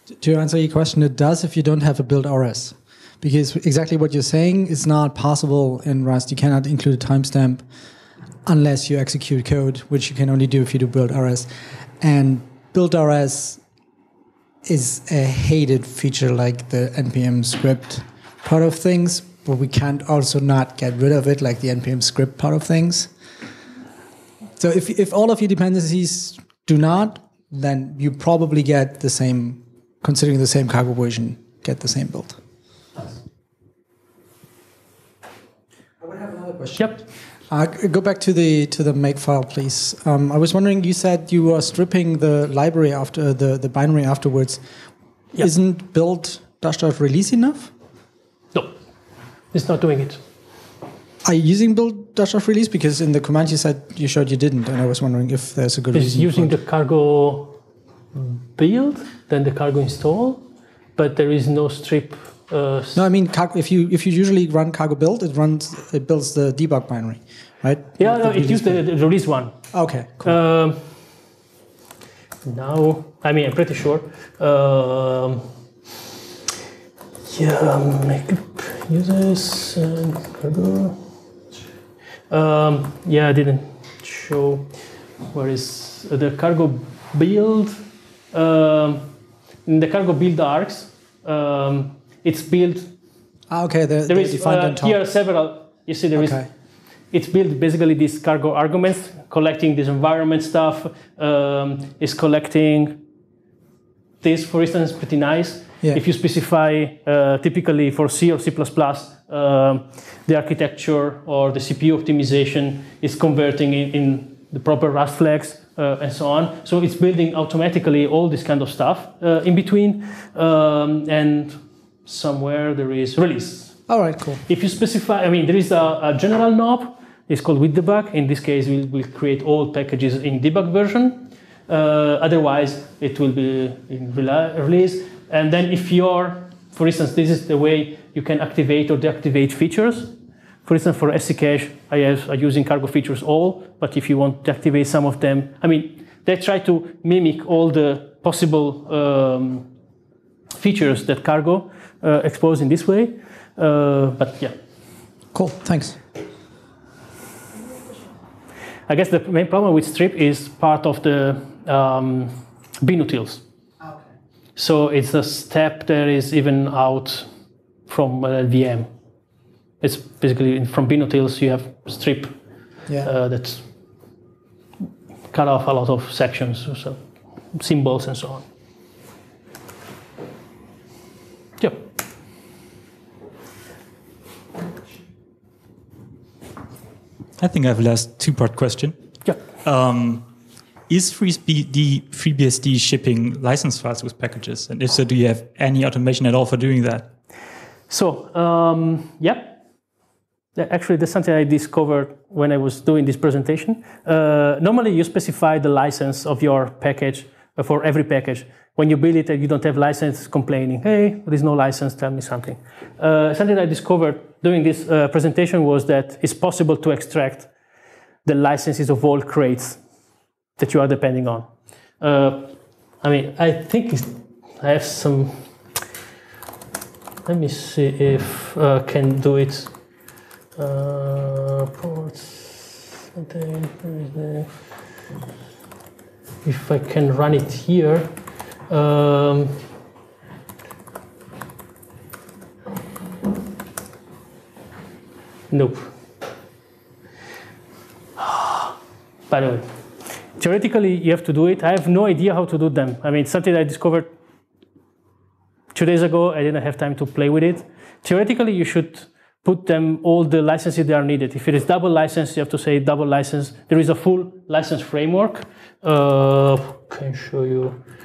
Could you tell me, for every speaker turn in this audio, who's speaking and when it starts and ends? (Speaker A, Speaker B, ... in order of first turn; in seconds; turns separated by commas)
Speaker A: 0.2-7.7, Speaker A: 8.5-13.6, Speaker A: 14.6-23.1, Speaker A: 24.6-32.4, Speaker A: 36.0-44.6, Speaker A: 45.4-47.7, Speaker B: 49.5-50.2, Speaker A: 51.2-56.6, Speaker B: 55.9-57.6, Speaker B: 58.1-60.5, Speaker B: 61.0-63.0, Speaker A: 63.0-68.9, Speaker B: 68.0-69.5, Speaker A: 69.7-70.4, Speaker B: 70.2-70.8, Speaker B: 72.5-75.5, Speaker B: 77.3-81.0, Speaker B: 82.3-84.7, Speaker B: 85.3-87.8, Speaker B: 88.3-89.1, Speaker B: 89.7-92.9, Speaker A: 93.5-95.0, Speaker B: 94.1-96.5, Speaker A: 96.2-96.5, Speaker B: 97.1-103.0, Speaker B: 104.2-123.9, Speaker A: 123.9-124.4, Speaker B: 124.5-149.7, Speaker B: 150.6-154.6, Speaker A: 155.3-156.0, Speaker B: 158.9-163.4, Speaker B: 164.6-167.3, Speaker B: 167.9-168.9, Speaker B: 169.8-172.4, Speaker B: 173.0-173.7, Speaker B: 175.3-178.5, Speaker B: 181.6-181.8, Speaker C: 187.4-190.3, Speaker C: 190.9-197.1, Speaker B: 197.9-199.6, Speaker B: 200.6-217.5, Speaker B: 218.2-219.8, Speaker B: 220.6-225.5, Speaker B: 227.3-229.8, Speaker B: 230.6-234.6, Speaker B: 236.4-238.1, Speaker B: 238.7-239.6, Speaker B: 245.5-245.9, Speaker B: 248.2-248.8, Speaker B: 249.3-249.7, Speaker B: 250.4-254.1, Speaker B: 255.7-267.8